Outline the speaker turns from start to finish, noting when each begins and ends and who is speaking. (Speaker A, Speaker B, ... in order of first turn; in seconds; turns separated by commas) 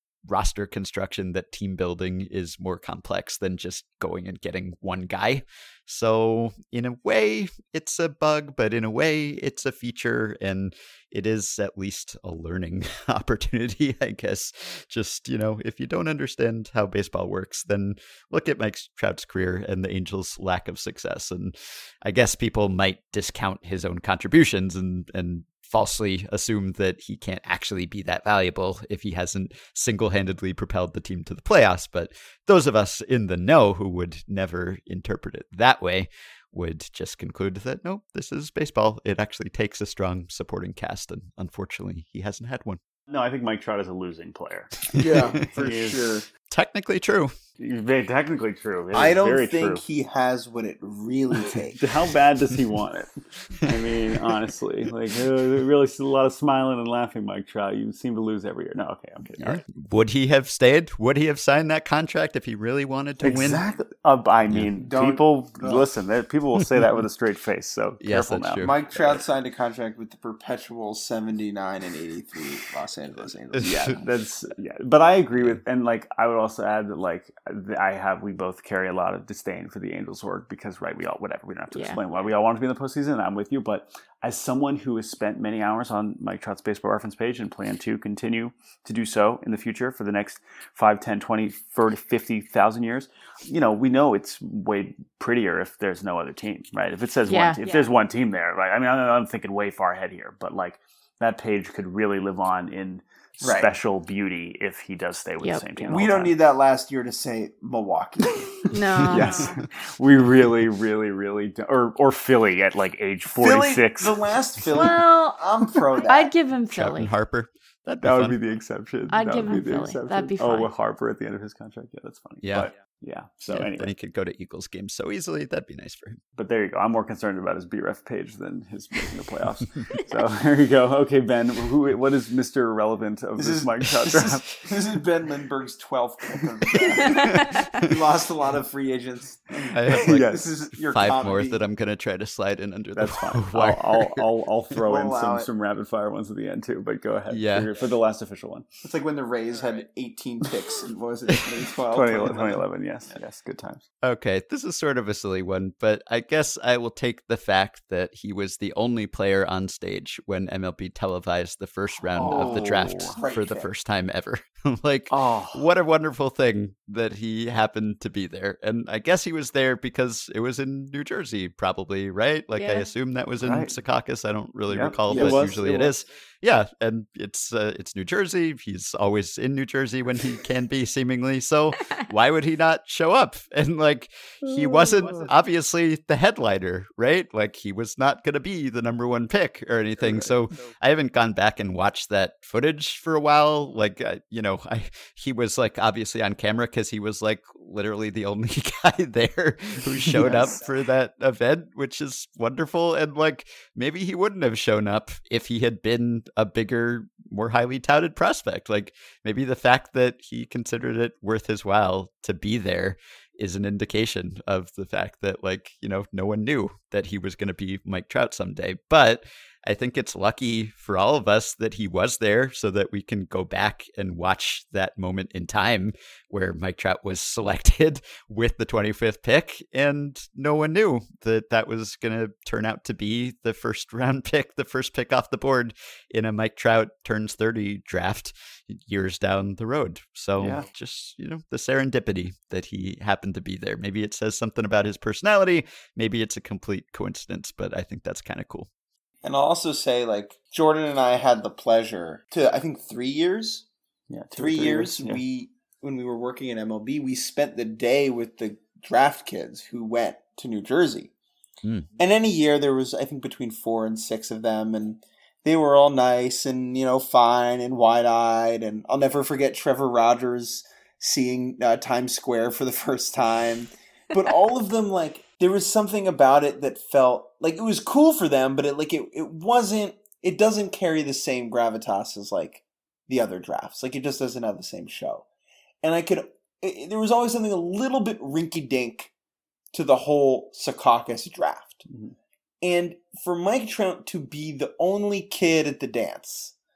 Speaker A: 0.3-42.8, Speaker B: 43.1-46.1, Speaker A: 44.9-45.2, Speaker C: 44.9-46.3, Speaker A: 46.5-47.3, Speaker B: 47.6-49.8, Speaker C: 48.9-51.8, Speaker B: 51.8-59.6, Speaker A: 59.4-63.6, Speaker B: 63.2-69.2, Speaker C: 64.8-65.8, Speaker A: 68.0-68.7, Speaker C: 68.6-73.9, Speaker A: 73.5-73.9, Speaker B: 73.6-106.3, Speaker D: 81.7-82.0, Speaker D: 97.3-97.9, Speaker C: 103.4-103.7, Speaker C: 105.8-108.6, Speaker D: 108.7-109.6, Speaker B: 109.0-114.2, Speaker C: 113.4-116.3, Speaker D: 114.7-115.4, Speaker D: 116.0-117.1, Speaker A: 116.7-118.4, Speaker B: 118.0-123.9, Speaker D: 119.1-120.7, Speaker A: 122.4-122.7, Speaker A: 123.5-126.2, Speaker B: 126.4-134.5, Speaker C: 133.4-141.6, Speaker D: 137.2-137.6, Speaker A: 139.7-144.2, Speaker B: 139.9-140.5, Speaker B: 143.0-148.6, Speaker C: 144.8-145.5, Speaker A: 147.3-147.7, Speaker C: 148.8-152.6, Speaker B: 151.9-153.8, Speaker A: 154.0-248.7, Speaker B: 162.2-163.2, Speaker C: 162.2-163.7, Speaker B: 165.1-165.7, Speaker D: 172.6-172.9, Speaker B: 173.4-173.7, Speaker B: 174.7-175.9, Speaker C: 175.1-175.6, Speaker B: 184.4-185.3, Speaker B: 190.0-190.3, Speaker B: 200.0-200.6, Speaker C: 200.2-200.5, Speaker B: 240.4-240.7, Speaker C: 249.2-253.6, Speaker B: 254.1-255.2, Speaker C: 254.4-261.1, Speaker C: 262.0-285.2, Speaker C: 285.8-289.1, Speaker C: 289.7-291.9, Speaker B: 291.9-292.1, Speaker C: 292.6-296.6